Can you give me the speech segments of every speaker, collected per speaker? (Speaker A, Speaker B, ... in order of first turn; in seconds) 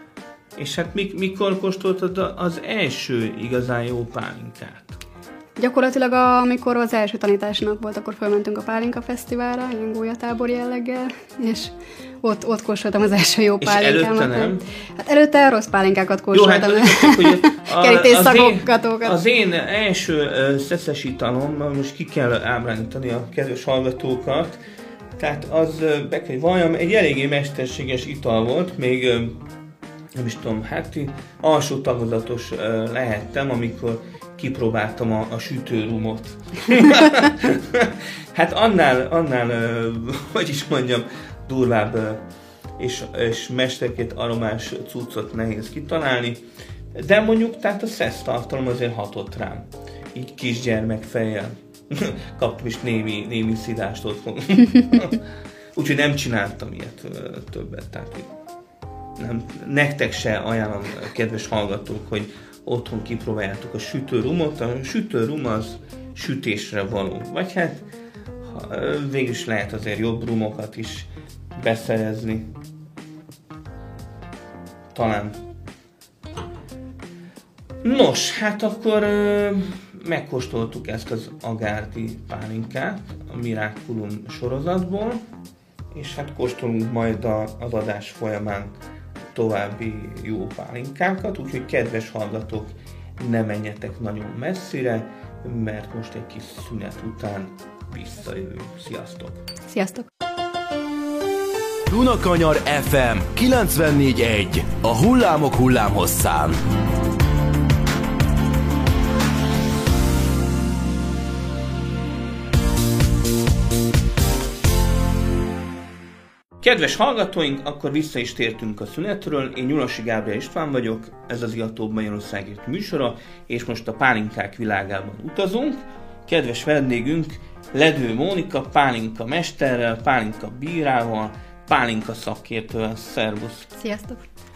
Speaker A: 0.6-5.0, 13.6-14.6, 16.3-24.6, 25.2-29.4, 30.1-42.2, 42.8-46.4, 46.9-55.2, 55.7-58.3, 59.2-67.9, 68.4-72.5, 74.9-75.3, 77.8-85.2, 85.9-88.7, 89.3-99.4, 116.6-133.7
Speaker B: 5.6-19.2, 99.7-100.1, 133.8-134.3
Speaker C: 101.9-106.6